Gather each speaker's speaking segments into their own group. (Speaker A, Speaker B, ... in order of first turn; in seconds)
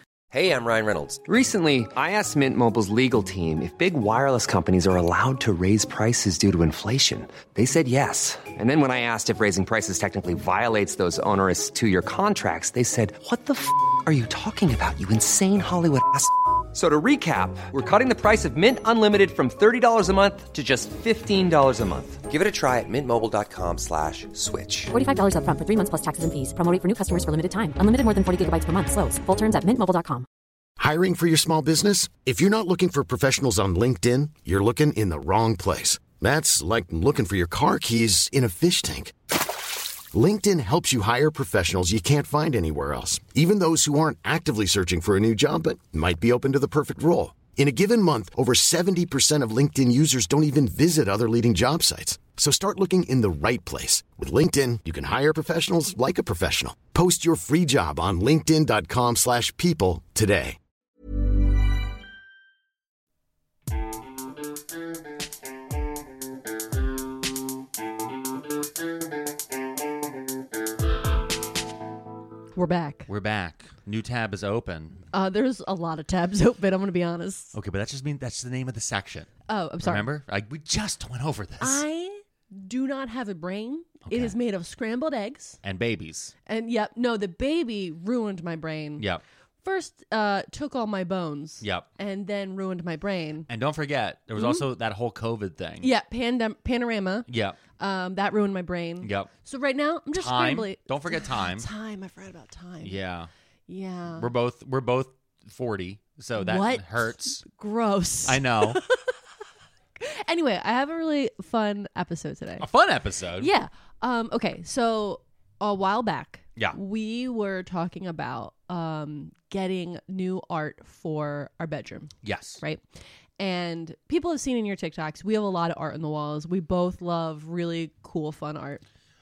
Speaker A: 0.3-1.2, 22.2-24.9
Speaker B: 0.4-22.2
Speaker C: 24.9-30.2
Speaker D: 30.8-39.1, 40.1-60.6
Speaker E: 72.5-73.1, 75.1-77.5, 79.5-80.1, 81.6-85.6, 86.5-89.0, 89.6-93.5, 94.4-94.6, 95.8-103.0, 103.7-104.3, 106.3-109.1, 110.0-112.7, 113.4-122.8, 123.4-128.8
Speaker F: 73.1-75.0, 77.5-79.3, 79.8-81.8, 84.1-84.3, 85.6-86.3, 91.6-91.8, 93.5-95.9, 97.3-97.6, 99.0-99.3, 100.1-101.7, 102.8-103.3, 104.2-107.4, 108.2-108.8, 112.6-113.5, 122.2-122.6